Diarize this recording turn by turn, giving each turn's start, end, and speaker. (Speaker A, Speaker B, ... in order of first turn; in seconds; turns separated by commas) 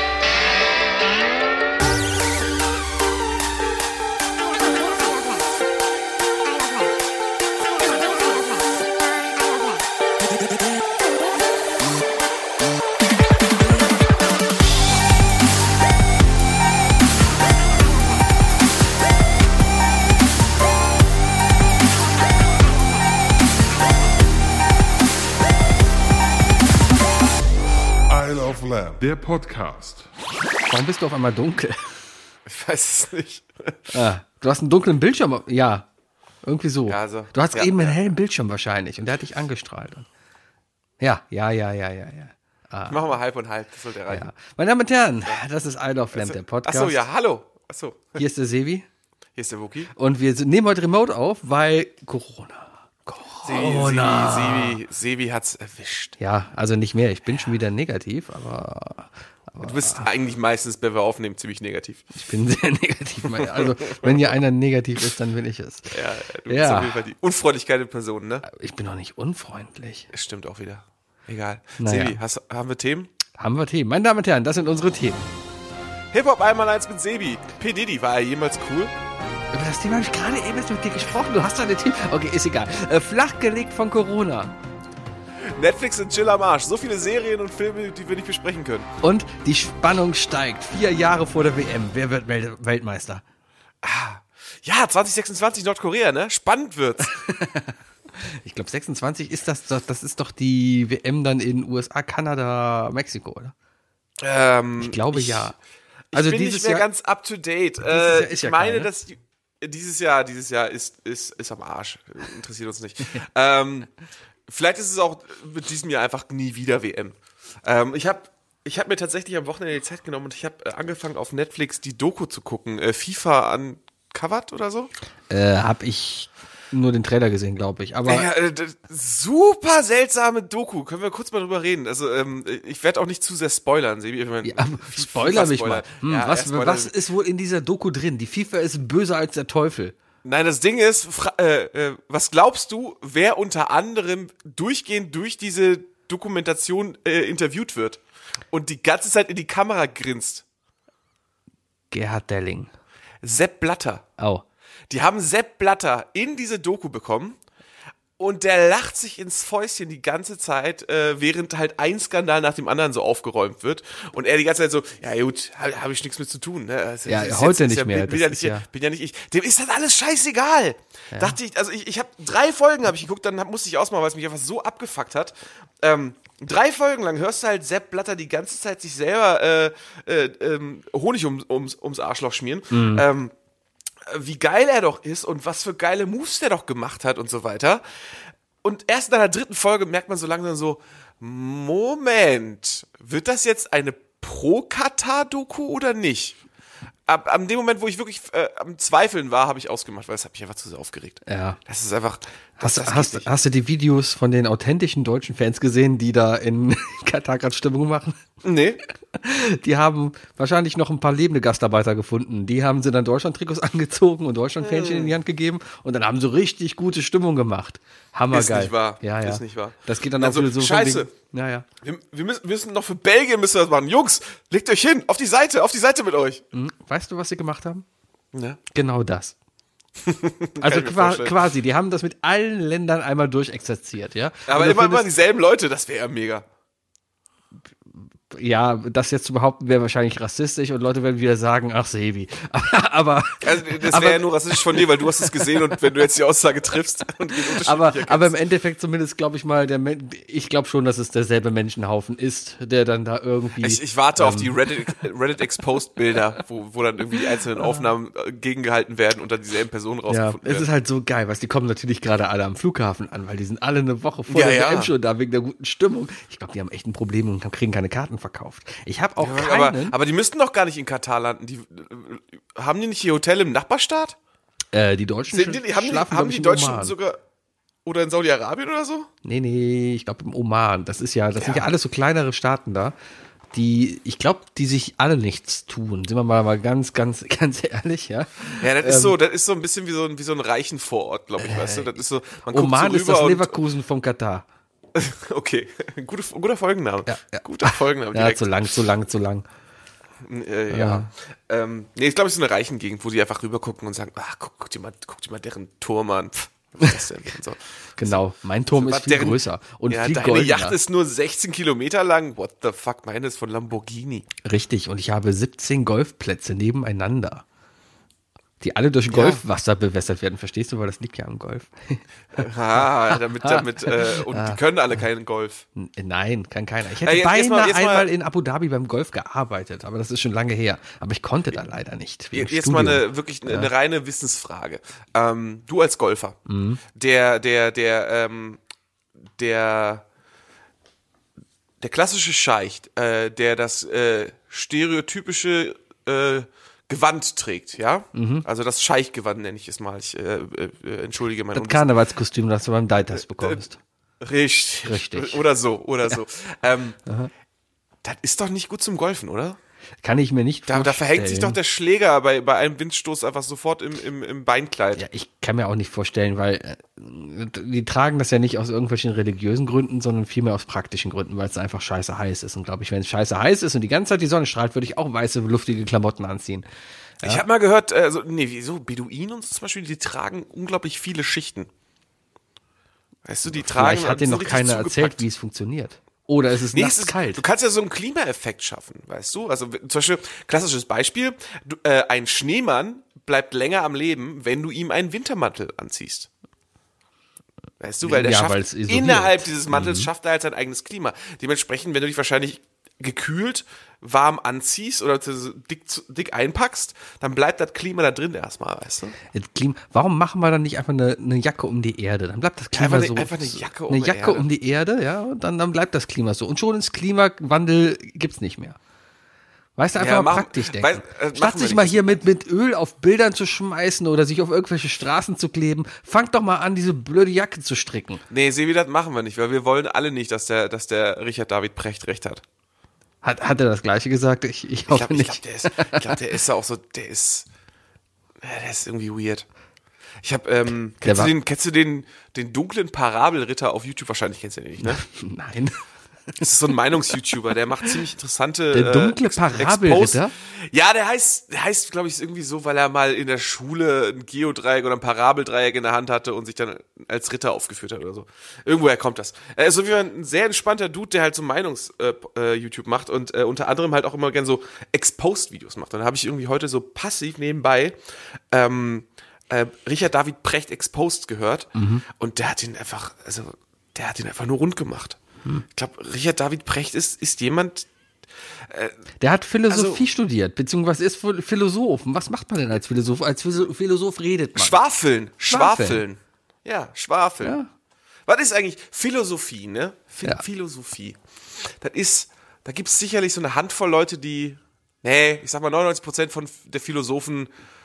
Speaker A: 0.3-0.9, Speaker A: 28.1-30.1, Speaker B: 30.7-31.9, Speaker C: 32.5-33.9, Speaker B: 33.9-35.9, Speaker B: 36.4-40.0, Speaker C: 36.9-38.1, Speaker B: 41.0-43.0, Speaker C: 42.9-44.3, Speaker B: 44.1-47.0, Speaker C: 46.1-48.2, Speaker B: 48.1-48.9, Speaker C: 49.4-49.9, Speaker B: 49.9-54.8, Speaker C: 53.4-56.1, Speaker B: 56.2-60.1, Speaker C: 59.6-62.0, Speaker B: 62.1-67.1, Speaker C: 63.3-64.3, Speaker C: 65.9-68.4, Speaker B: 68.4-70.1, Speaker C: 70.1-73.1, Speaker B: 71.8-72.2, Speaker B: 73.3-75.2, Speaker C: 76.1-78.9, Speaker B: 79.5-84.5, Speaker C: 85.5-88.9, Speaker B: 89.0-93.2, Speaker C: 93.8-97.1, Speaker B: 97.0-103.5, Speaker C: 104.2-105.5, Speaker B: 104.8-105.5, Speaker C: 106.1-113.9, Speaker B: 106.1-106.8, Speaker B: 107.8-108.9, Speaker C: 114.5-124.9, Speaker B: 125.3-128.3, Speaker C: 128.1-136.9, Speaker B: 134.4-139.9, Speaker C: 140.2-150.4, Speaker B: 151.9-152.7, Speaker C: 153.2-154.1, Speaker B: 154.2-154.4, Speaker C: 154.9-157.4, Speaker C: 158.2-183.3, Speaker B: 167.1-168.6, Speaker B: 182.7-183.0, Speaker C: 184.0-196.4, Speaker C: 197.1-203.3, Speaker B: 201.3-201.6, Speaker B: 202.6-208.2, Speaker C: 208.4-208.8, Speaker B: 209.2-221.7, Speaker C: 214.6-215.1, Speaker C: 218.3-221.1, Speaker C: 221.8-226.4, Speaker B: 226.5-227.8, Speaker C: 228.3-228.6, Speaker B: 228.7-229.3, Speaker C: 230.0-231.4, Speaker B: 230.6-235.1, Speaker C: 234.5-236.4, Speaker B: 238.3-245.3, Speaker C: 243.4-248.3, Speaker B: 247.6-254.5, Speaker C: 253.6-260.7, Speaker B: 257.6-257.8, Speaker B: 260.1-269.9, Speaker C: 264.3-264.9, Speaker C: 269.2-274.1, Speaker B: 274.7-276.9, Speaker C: 275.3-277.2, Speaker C: 277.8-279.1, Speaker B: 279.2-282.9, Speaker C: 281.4-281.7, Speaker B: 283.5-289.1, Speaker C: 288.6-293.6, Speaker B: 291.4-291.9, Speaker B: 292.5-294.4, Speaker C: 294.9-298.5, Speaker B: 297.1-299.4, Speaker C: 300.2-308.2, Speaker B: 300.7-301.1, Speaker B: 308.0-310.8, Speaker C: 308.7-314.3, Speaker B: 314.4-317.4, Speaker B: 318.6-324.6, Speaker C: 319.1-319.4, Speaker C: 322.4-325.6, Speaker B: 325.8-333.7, Speaker C: 327.0-328.1, Speaker C: 332.3-336.4, Speaker B: 336.5-336.8, Speaker C: 336.9-338.6, Speaker C: 339.4-340.0, Speaker C: 341.8-351.8, Speaker B: 348.1-348.4, Speaker B: 351.5-353.8, Speaker C: 354.2-357.0, Speaker B: 354.9-355.4, Speaker B: 357.1-357.3, Speaker C: 358.0-359.6, Speaker B: 360.0-361.6, Speaker C: 360.7-365.0, Speaker B: 364.9-376.6, Speaker C: 377.2-381.7, Speaker C: 383.2-385.2, Speaker B: 383.5-387.4, Speaker C: 386.7-396.3, Speaker C: 397.8-409.1, Speaker B: 398.0-400.1, Speaker B: 409.3-418.8, Speaker C: 412.7-414.5, Speaker B: 419.8-428.2, Speaker C: 420.0-422.2, Speaker C: 428.3-432.4, Speaker B: 433.2-436.1, Speaker C: 434.9-437.5, Speaker C: 438.4-439.5, Speaker C: 440.2-445.0, Speaker B: 441.0-441.3, Speaker B: 444.8-445.8, Speaker C: 446.4-468.0, Speaker B: 448.7-450.3, Speaker C: 468.5-475.2, Speaker B: 471.7-472.0, Speaker C: 475.7-477.9, Speaker C: 478.6-478.9, Speaker B: 479.2-484.8, Speaker C: 479.7-480.0, Speaker C: 484.6-487.6, Speaker B: 485.5-486.0, Speaker B: 487.4-487.7, Speaker C: 488.2-497.5